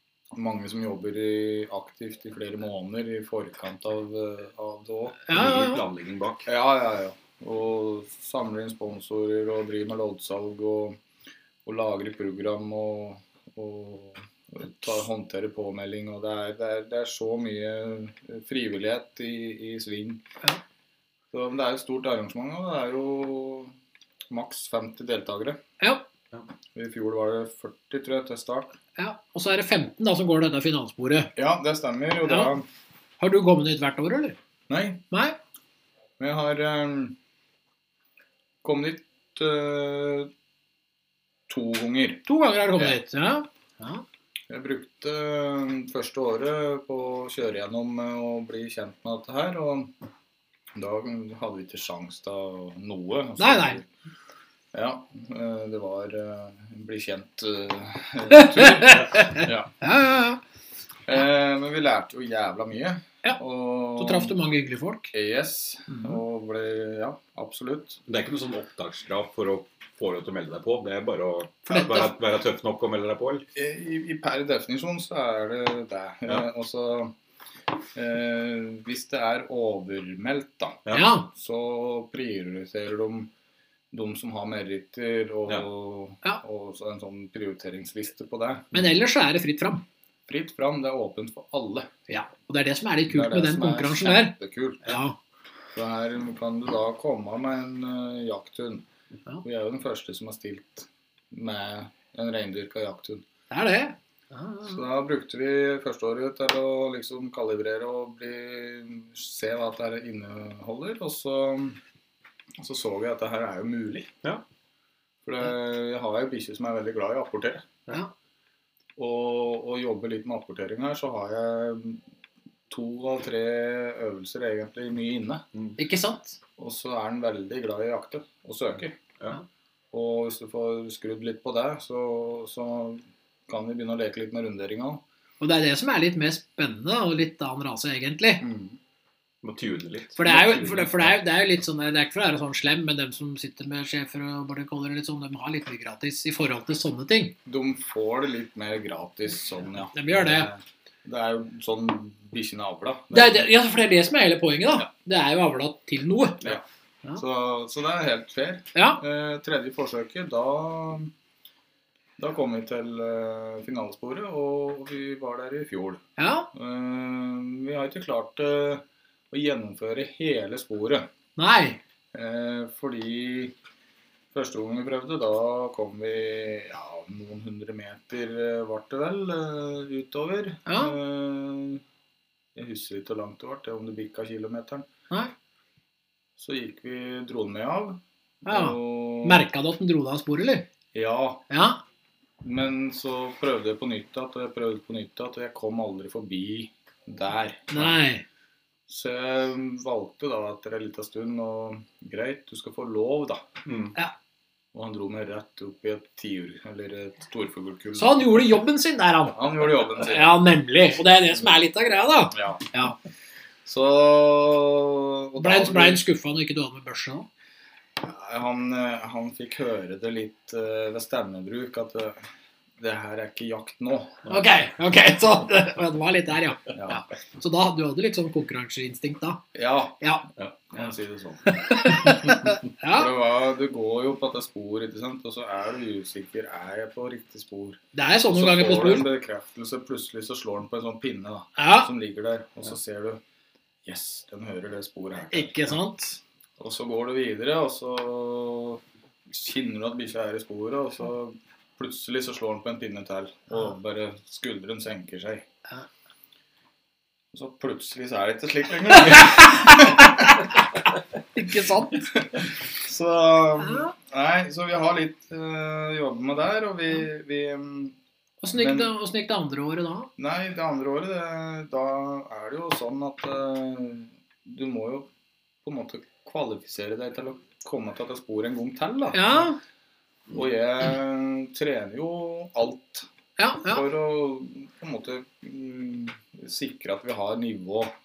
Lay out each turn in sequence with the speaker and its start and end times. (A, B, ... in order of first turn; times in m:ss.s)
0:00.3-0:05.4 A
0:05.3-0:05.8 B
0:05.3-0:06.4 C
0:06.4-0:11.0 A
0:11.6-0:20.2 A
0:21.3-0:23.7 A
0:24.3-0:25.6 A
0:26.7-0:28.8 A
0:29.0-0:31.3 B
0:31.3-0:32.6 A
0:32.2-0:32.5 B
0:33.2-0:34.4 B
0:34.7-0:35.0 A
0:35.1-0:35.4 B
0:36.2-0:37.2 A
0:38.6-0:40.3 A
0:41.5-0:42.2 A
0:42.2-0:44.0 B
0:44.5-0:49.9 A
0:50.7-0:53.8 A
0:53.4-0:53.8 B
0:54.7-0:59.7 A
0:58.3-1:00.4 B
1:01.1-1:04.4 A
1:04.0-1:05.1 B
1:05.1-1:08.0 A
1:05.9-1:06.2 B
1:08.1-1:13.4 C
1:11.7-1:12.1 B
1:13.5-1:17.1 A
1:17.9-1:23.3 A
1:20.9-1:21.3 B
1:23.9-1:28.8 A
1:28.7-1:29.8 B
1:30.3-1:31.9 A
1:32.1-1:35.2 B
1:33.1-1:35.0 A
1:35.7-1:38.8 A
1:39.4-1:43.2 A
1:43.5-1:44.8 B
1:44.6-1:51.8 A
1:52.6-1:54.1 A
1:55.2-1:57.7 A
1:59.0-2:02.0 A
2:02.7-2:05.4 A
2:05.8-2:06.4 B
2:06.6-2:09.0 A
2:09.9-2:15.0 A
2:15.4-2:18.4 B
2:18.4-2:18.8 A
2:19.4-2:21.1 C
2:20.2-2:27.4 B
2:27.4-2:33.5 A
2:29.9-2:30.5 B
2:33.1-2:36.4 B
2:37.2-2:41.1 A
2:38.7-2:39.0 B
2:42.2-2:51.1 A
2:46.2-2:46.5 B
2:51.4-2:51.8 B
2:52.1-2:53.6 A
2:54.3-3:01.8 A
3:00.7-3:01.0 B
3:02.5-3:04.8 A
3:06.4-3:09.4 A
3:08.4-3:10.7 B
3:10.9-3:11.5 A
3:11.5-3:11.8 B
3:12.4-3:17.9 A
3:17.7-3:18.2 B
3:18.9-3:23.5 A
3:23.6-3:23.9 C
3:24.7-3:28.4 A
3:27.9-3:33.0 B
3:29.3-3:30.4 A
3:32.3-3:32.7 A
3:33.6-3:36.0 A
3:35.4-3:37.3 B
3:38.0-3:42.2 A
3:42.8-3:44.3 A
3:44.3-3:49.4 B
3:46.7-3:47.0 A
3:49.5-3:50.0 A
3:50.0-3:50.3 B
3:50.7-4:03.2 A
3:51.5-3:53.1 B
3:57.9-3:59.0 B
4:01.6-4:01.9 B
4:03.8-4:05.8 A
4:05.3-4:06.2 B
4:06.6-4:15.4 A
4:17.3-4:20.6 A
4:19.1-4:20.1 B
4:21.3-4:22.1 B
4:22.1-4:28.0 A
4:23.6-4:23.9 B
4:28.4-4:30.1 B
4:28.5-4:28.9 A
4:30.2-4:35.1 A
4:35.6-4:39.5 A
4:39.1-4:39.6 B
4:40.3-4:43.1 A
4:43.4-4:43.8 B
4:43.6-4:47.9 A